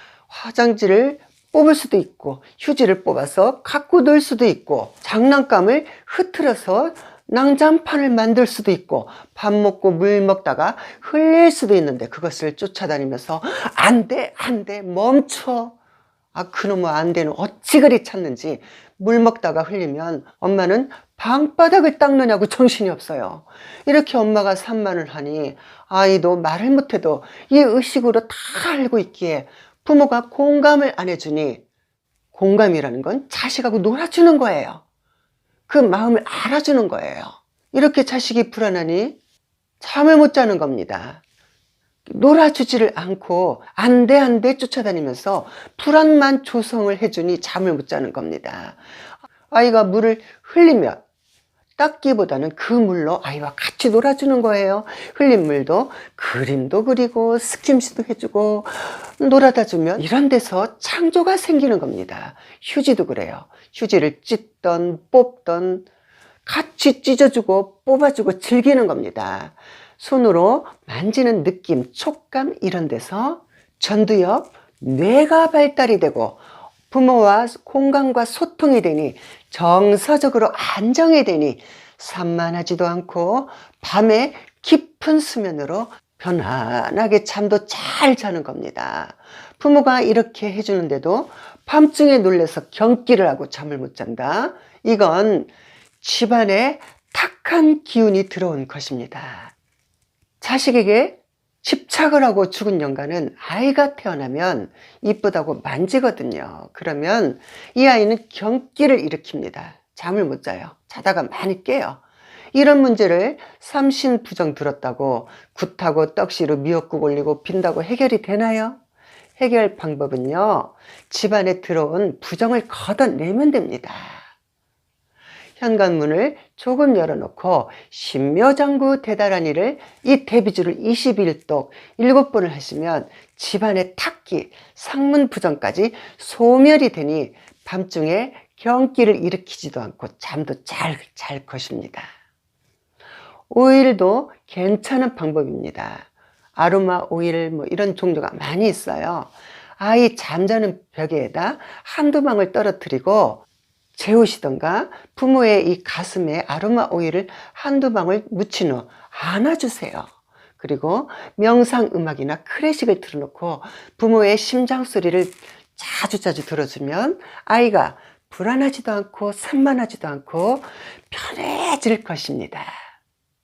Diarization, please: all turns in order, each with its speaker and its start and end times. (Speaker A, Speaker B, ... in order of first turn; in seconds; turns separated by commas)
Speaker A: 0.3-15.8, Speaker A: 16.3-31.6, Speaker A: 32.3-34.8, Speaker A: 35.7-39.2, Speaker A: 39.8-41.2, Speaker A: 42.1-48.8, Speaker A: 49.5-51.0, Speaker A: 51.8-65.9, Speaker A: 66.5-95.5, Speaker A: 96.0-99.5, Speaker A: 100.4-112.0, Speaker A: 112.5-118.8, Speaker A: 119.4-124.2, Speaker A: 125.6-142.1, Speaker A: 143.5-153.4, Speaker A: 154.0-160.1, Speaker A: 160.6-172.7